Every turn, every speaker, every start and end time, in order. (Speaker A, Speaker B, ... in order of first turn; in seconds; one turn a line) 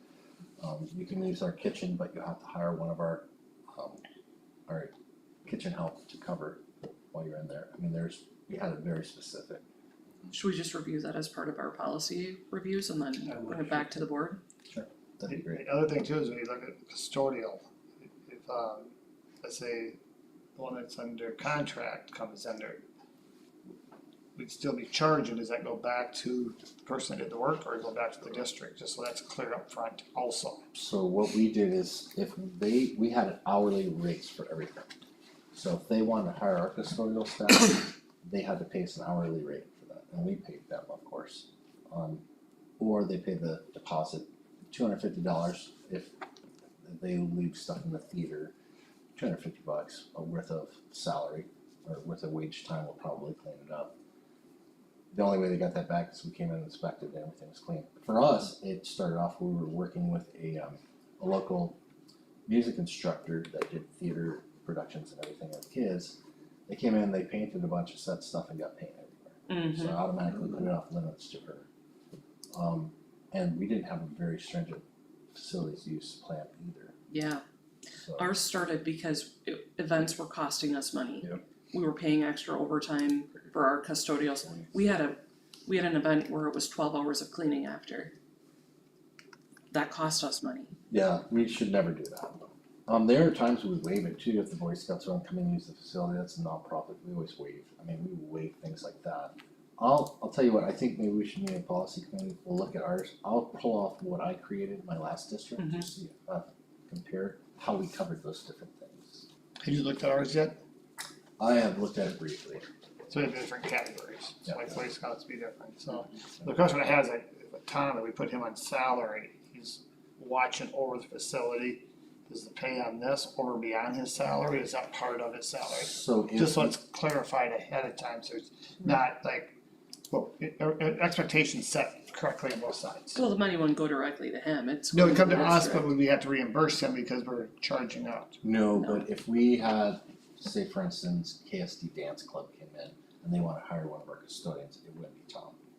Speaker A: 0.6-4.0
Speaker A: 4.7-4.9
Speaker A: 5.4-9.6
Speaker B: 10.3-14.4
Speaker A: 14.7-15.6
Speaker C: 15.2-17.6
Speaker C: 18.2-18.9
Speaker C: 19.4-20.0
Speaker C: 20.6-22.8
Speaker C: 24.4-30.6
Speaker A: 30.7-34.9
Speaker A: 35.5-42.2
Speaker A: 42.8-46.1
Speaker A: 46.8-48.5
Speaker A: 49.1-53.9
Speaker A: 55.1-61.8
Speaker A: 62.5-71.7
Speaker B: 69.5-70.0
Speaker A: 72.5-76.9
Speaker B: 77.1-77.4
Speaker A: 78.0-78.3
Speaker B: 78.2-88.1
Speaker B: 89.7-90.7
Speaker A: 90.9-109.2
Speaker B: 105.6-105.8
Speaker C: 109.6-110.6
Speaker A: 111.4-112.7
Speaker C: 113.1-129.5
Speaker A: 125.8-126.8
Speaker C: 130.1-133.2
Speaker B: 133.1-135.9
Speaker C: 134.9-138.4
Speaker A: 138.4-145.5
Speaker B: 138.8-139.1